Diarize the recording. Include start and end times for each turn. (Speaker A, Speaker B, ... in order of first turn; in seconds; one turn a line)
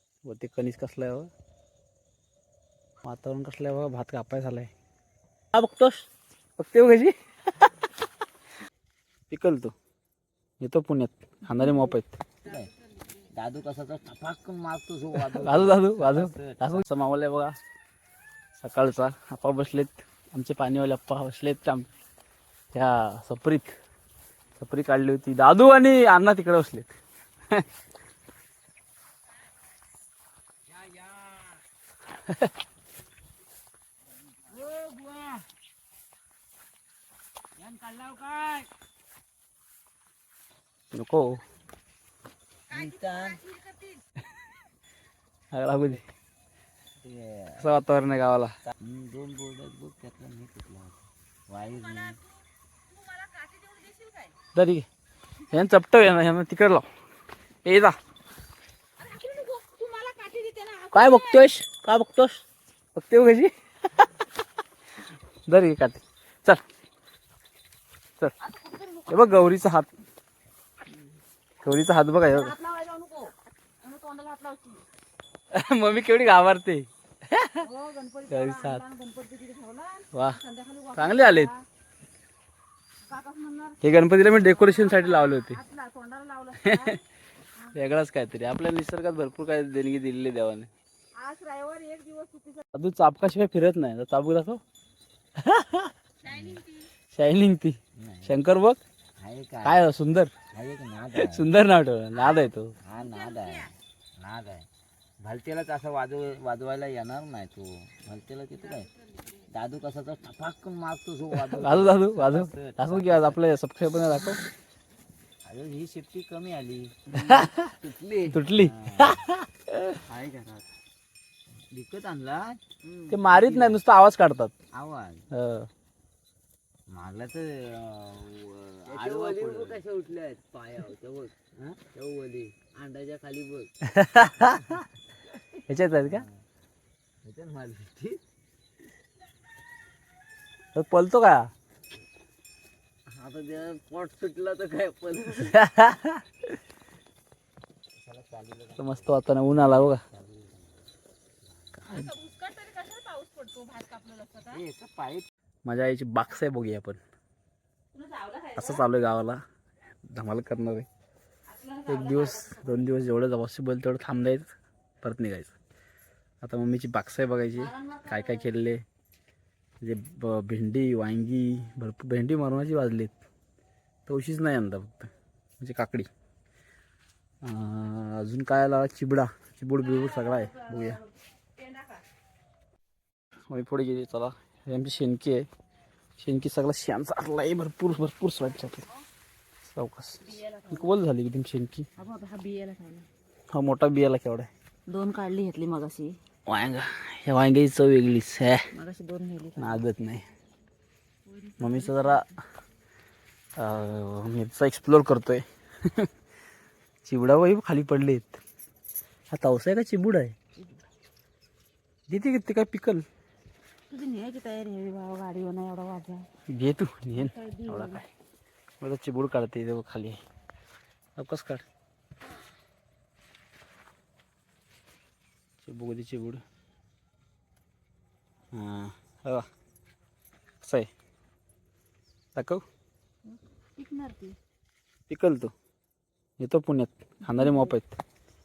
Speaker A: 0.2-1.3
Speaker A: 3.0-4.7
Speaker A: 5.5-7.9
Speaker A: 9.3-9.8
Speaker A: 10.6-12.2
Speaker B: 12.4-12.7
Speaker B: 13.3-16.9
Speaker A: 15.3-17.5
Speaker A: 18.6-21.9
Speaker A: 22.7-23.8
Speaker A: 24.6-26.9
Speaker B: 30.9-31.4
Speaker B: 34.4-35.4
Speaker B: 37.6-38.7
Speaker A: 40.9-41.4
Speaker C: 42.7-44.0
Speaker B: 42.7-43.5
Speaker A: 45.5-46.0
Speaker B: 47.0-47.7
Speaker A: 47.6-48.5
Speaker B: 48.8-52.2
Speaker C: 51.6-52.4
Speaker C: 52.9-54.3
Speaker A: 54.5-54.9
Speaker A: 55.5-56.9
Speaker A: 57.6-58.0
Speaker C: 59.0-61.5
Speaker A: 60.9-62.4
Speaker A: 63.0-63.5
Speaker A: 65.5-66.6
Speaker C: 68.4-69.4
Speaker A: 69.1-69.9
Speaker A: 71.6-72.6
Speaker C: 72.3-74.8
Speaker A: 75.5-77.6
Speaker C: 77.6-81.6
Speaker A: 78.3-78.8
Speaker A: 80.1-80.4
Speaker A: 81.0-81.5
Speaker C: 83.1-87.0
Speaker A: 83.8-85.6
Speaker A: 86.6-87.0
Speaker A: 87.7-90.7
Speaker C: 91.2-92.7
Speaker A: 92.7-94.6
Speaker A: 95.4-95.9
Speaker C: 96.2-96.9
Speaker B: 96.2-96.7
Speaker A: 97.1-98.8
Speaker B: 98.0-98.4
Speaker B: 99.2-99.8
Speaker A: 99.6-100.3
Speaker B: 100.5-101.5
Speaker A: 101.1-102.8
Speaker C: 102.2-103.7
Speaker B: 102.8-104.7
Speaker B: 105.2-108.9
Speaker C: 108.8-109.4
Speaker B: 109.5-113.4
Speaker A: 111.5-114.4
Speaker B: 115.5-119.2
Speaker A: 117.2-117.7
Speaker A: 118.3-120.0
Speaker B: 120.1-120.7
Speaker B: 121.7-123.8
Speaker A: 123.1-124.5
Speaker B: 124.7-125.3
Speaker A: 125.3-125.7
Speaker B: 126.9-133.7
Speaker A: 133.8-134.8
Speaker A: 135.7-136.3
Speaker B: 136.0-136.4
Speaker B: 137.2-138.2
Speaker A: 140.8-141.5
Speaker B: 143.1-145.6
Speaker A: 145.5-146.2
Speaker B: 148.0-150.8
Speaker A: 148.8-150.0
Speaker C: 151.8-154.6
Speaker B: 154.5-155.3
Speaker A: 155.7-157.0
Speaker C: 157.9-158.9
Speaker A: 158.6-159.4
Speaker A: 160.1-160.9
Speaker C: 161.5-162.9
Speaker A: 161.9-164.5
Speaker A: 165.0-165.6
Speaker A: 166.4-168.8
Speaker C: 167.5-168.5
Speaker A: 169.8-173.2
Speaker A: 174.1-176.1
Speaker A: 177.4-181.0
Speaker C: 179.8-182.0
Speaker A: 183.5-185.5
Speaker A: 186.2-188.9
Speaker C: 188.7-189.0
Speaker A: 189.7-191.9
Speaker C: 190.2-191.0
Speaker C: 192.0-193.1
Speaker A: 193.5-194.5
Speaker C: 194.9-196.2
Speaker A: 196.5-198.7
Speaker C: 198.7-199.8
Speaker A: 199.6-200.2
Speaker C: 201.3-202.3
Speaker A: 201.6-202.3
Speaker A: 203.6-206.1
Speaker A: 207.1-208.4
Speaker A: 209.3-210.3
Speaker C: 210.6-210.8
Speaker A: 212.1-213.0
Speaker C: 213.9-216.3
Speaker A: 216.5-218.0
Speaker C: 217.2-218.1
Speaker A: 218.8-220.2
Speaker A: 221.2-221.6
Speaker A: 225.6-226.4
Speaker A: 228.5-229.5
Speaker A: 230.6-230.9
Speaker A: 232.3-232.6
Speaker C: 233.3-234.4
Speaker A: 235.1-235.5
Speaker A: 236.4-238.0
Speaker C: 237.3-237.7